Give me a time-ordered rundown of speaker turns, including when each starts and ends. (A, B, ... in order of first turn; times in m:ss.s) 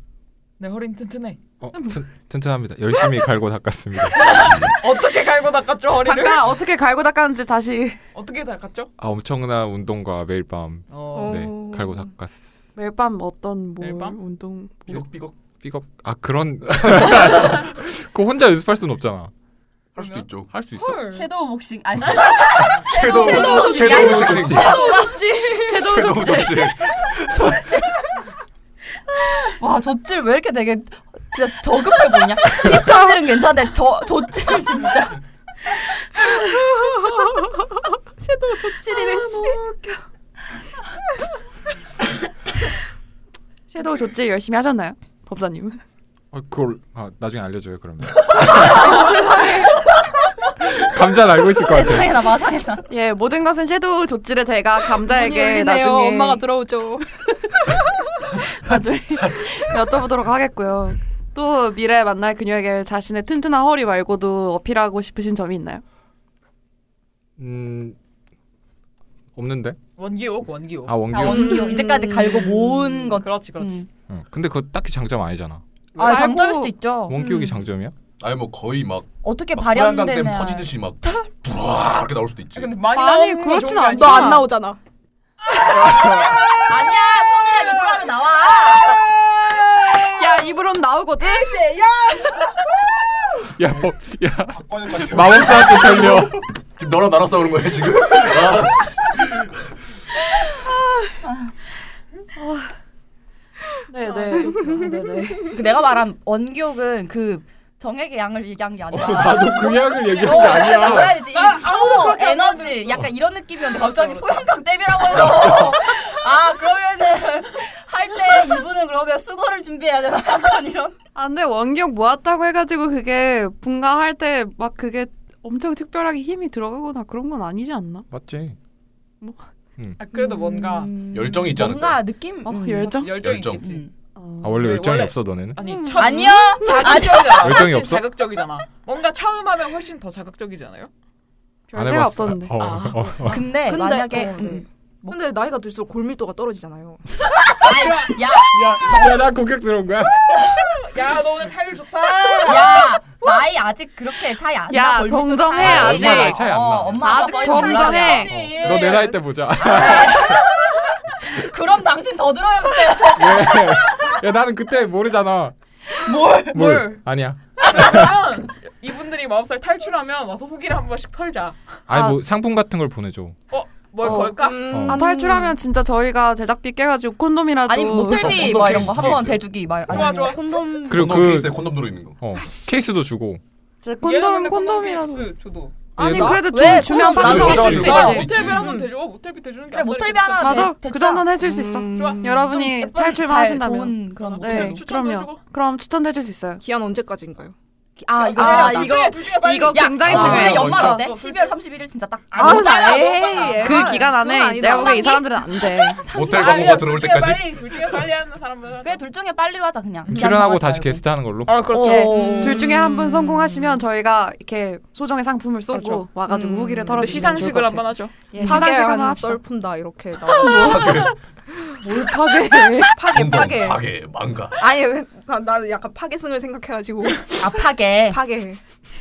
0:00.6-0:01.4 A
0:01.6-0:04.4 B
0:04.1-0:06.4 A
0:06.0-0:08.0 C
0:08.1-0:08.9 A
0:09.0-0:12.6 B
0:10.9-0:11.4 A
0:11.1-0:12.1 D
0:12.8-0:15.0 C
0:13.8-0:14.2 A
0:14.9-0:15.4 E
0:15.5-0:19.3 B
0:16.7-0:17.4 E
0:20.0-0:20.5 E
0:20.0-0:21.3 A
0:20.5-0:21.1 B
0:21.0-0:25.6 F
0:22.6-0:24.9 E
0:23.0-0:25.9 D
0:23.8-0:24.6 B
0:25.6-0:26.8 C
0:25.9-0:27.6 E
0:27.3-0:28.0 F
0:29.2-0:35.2 F
0:36.2-0:36.6 C
0:36.6-0:39.6 D
0:38.9-0:40.0 C
0:43.7-0:45.8 C
0:46.3-0:49.1 B
0:48.6-0:49.7 C
0:48.6-0:49.7 D
0:50.6-0:52.3 B
0:51.6-0:52.8 F
0:52.9-0:56.4 C
0:54.9-0:57.1 D
0:58.2-1:05.8 C
1:07.4-1:08.0 B
1:09.4-1:09.8 B
1:10.0-1:11.7 A
1:10.9-1:11.7 B
1:11.1-1:13.9 F
1:11.2-1:13.2 D
1:13.1-1:13.9 A
1:14.1-1:15.6 B
1:16.0-1:16.3 A
1:16.0-1:17.2 F
1:16.0-1:16.7 C
1:17.1-1:18.0 B
1:17.2-1:17.6 D
1:18.2-1:22.8 E
1:19.2-1:20.7 F
1:22.5-1:24.5 A
1:22.9-1:24.5 C
1:23.9-1:24.8 D
1:25.7-1:26.4 B
1:25.9-1:29.1 F
1:29.5-1:30.2 D
1:29.9-1:30.2 F
1:30.1-1:31.6 C
1:31.2-1:32.3 F
1:31.5-1:32.4 D
1:33.5-1:36.4 B
1:34.5-1:39.5 E
1:41.2-1:41.5 F
1:42.4-1:42.7 C
1:43.9-1:45.6 C
1:44.1-1:44.8 A
1:44.3-1:45.3 D
1:45.5-2:01.0 F
1:48.9-1:51.2 B
1:50.2-1:53.0 A
1:53.7-1:54.4 A
2:01.2-2:08.1 C
2:08.1-2:08.6 B
2:10.0-2:10.9 A
2:10.2-2:13.0 F
2:10.5-2:11.4 D
2:11.1-2:12.0 E
2:12.4-2:13.1 C
2:12.8-2:13.8 A
2:13.2-2:13.7 E
2:13.6-2:13.9 F
2:14.2-2:14.6 C
2:14.4-2:15.6 B
2:14.6-2:20.9 A
2:15.7-2:16.1 C
2:15.7-2:16.0 D
2:16.0-2:17.7 F
2:17.4-2:18.0 B
2:21.7-2:22.6 C
2:21.7-2:23.5 B
2:22.6-2:23.4 A
2:23.2-2:25.2 F
2:23.6-2:27.0 D
2:27.3-2:30.4 B
2:27.5-2:29.4 F
2:30.3-2:30.7 F
2:30.4-2:32.9 A
2:32.4-2:38.9 F
2:34.7-2:36.4 C
2:35.6-2:40.5 B
2:37.0-2:38.3 C
2:37.7-2:39.2 A
2:39.6-2:44.2 F
2:43.2-2:45.6 B
2:46.0-2:47.0 F
2:46.5-2:48.2 B
2:47.6-2:51.6 A
2:51.9-2:53.4 B
2:51.9-2:52.2 F
2:53.5-2:54.8 A
2:54.0-2:58.6 C
2:54.1-2:55.6 D
2:54.7-2:55.0 B
2:57.7-3:01.1 F
2:58.0-2:59.5 E
2:59.9-3:00.6 A
3:00.9-3:02.2 E
3:00.9-3:03.4 B
3:02.4-3:02.9 D
3:03.8-3:05.3 C
3:04.0-3:05.9 A
3:06.0-3:06.6 B
3:06.0-3:08.3 C
3:06.0-3:07.9 D
3:06.1-3:08.4 F
3:07.0-3:08.8 E
3:07.3-3:10.7 A
3:08.4-3:08.9 D
3:09.7-3:14.8 F
3:10.4-3:16.6 C
3:12.0-3:12.2 A
3:14.2-3:15.4 A
3:16.6-3:17.5 D
3:18.0-3:24.0 F
3:18.2-3:21.6 A
3:18.4-3:21.1 C
3:20.1-3:20.7 E
3:20.2-3:20.9 B
3:22.3-3:24.1 A
3:22.4-3:26.0 D
3:23.6-3:26.0 C
3:26.0-3:27.0 F
3:26.1-3:27.9 E
3:26.2-3:29.0 A
3:28.8-3:31.0 F
3:30.1-3:31.9 B
3:31.5-3:32.6 A
3:31.7-3:32.7 F
3:31.9-3:33.8 D
3:32.4-3:39.4 C
3:35.8-3:36.0 A
3:36.3-3:37.5 D
3:36.9-3:38.2 A
3:38.3-3:41.1 D
3:40.3-3:41.1 C
3:40.5-3:41.1 E
3:41.8-3:42.9 C
3:42.8-3:43.8 D
3:43.1-3:44.6 E
3:44.6-3:47.5 D
3:47.4-3:48.2 F
3:48.1-3:48.6 D